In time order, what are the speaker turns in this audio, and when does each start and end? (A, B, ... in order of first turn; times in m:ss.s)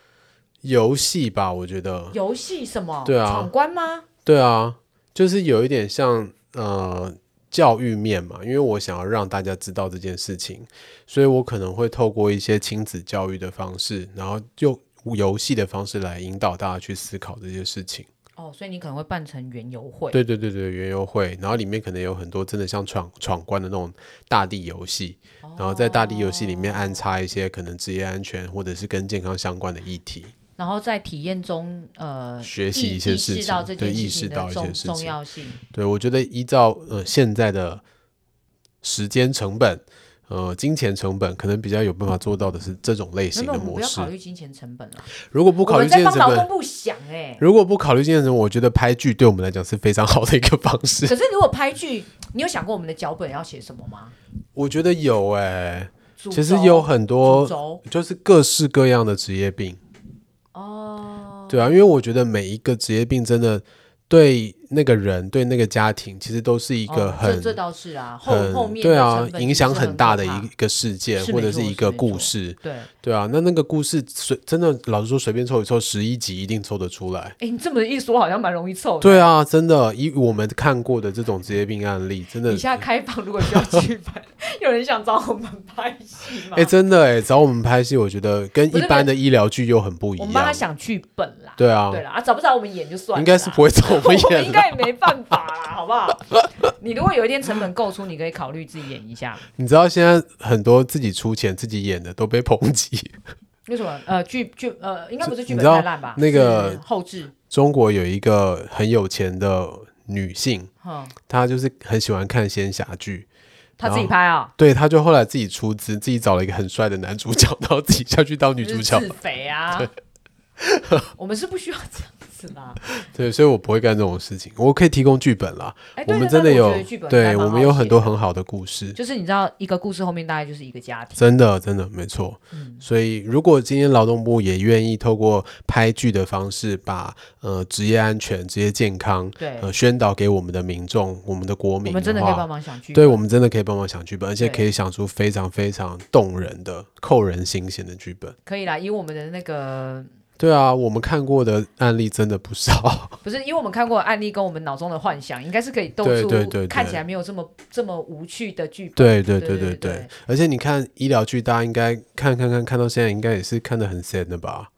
0:00.6-0:02.2 A
0:02.1-0:04.1 B
0:03.0-0:03.5 A
0:04.2-0:18.1 A
0:18.4-0:20.2 B
0:20.1-0:30.3 A
0:25.4-0:27.0 B
0:30.6-0:35.6 B
0:32.4-0:35.2 A
0:35.7-0:37.8 A
0:38.8-0:44.1 A
0:43.3-0:47.4 B
0:45.1-0:46.5 A
0:47.4-0:51.2 A
0:51.1-0:54.2 B
0:54.6-0:59.8 A
0:56.2-0:57.8 B
1:00.5-1:01.6 B
1:01.5-1:07.6 A
1:06.9-1:10.5 B
1:08.3-1:17.4 A
1:11.2-1:12.9 B
1:17.4-1:19.3 B
1:19.0-1:22.8 A
1:22.5-1:26.7 B
1:26.5-1:30.6 A
1:28.7-1:29.1 B
1:30.2-1:39.4 B
1:31.6-1:32.0 A
1:33.1-1:34.9 A
1:39.6-1:43.2 A
1:43.7-1:47.3 B
1:45.2-1:46.8 A
1:47.5-1:50.7 A
1:50.8-1:51.2 B
1:51.3-1:53.3 A
1:53.8-1:54.5 B
1:53.8-1:59.1 A
1:58.6-1:59.9 B
2:00.6-2:01.0 A
2:01.2-2:02.8 B
2:03.1-2:09.0 A
2:06.0-2:08.2 B
2:09.0-2:11.3 B
2:11.2-2:28.4 A
2:12.5-2:12.8 B
2:19.4-2:19.7 B
2:21.8-2:23.2 B
2:24.4-2:24.7 B
2:28.4-2:30.1 B
2:30.4-2:33.2 A
2:33.2-2:40.1 B
2:36.0-2:37.0 A
2:39.0-2:44.7 A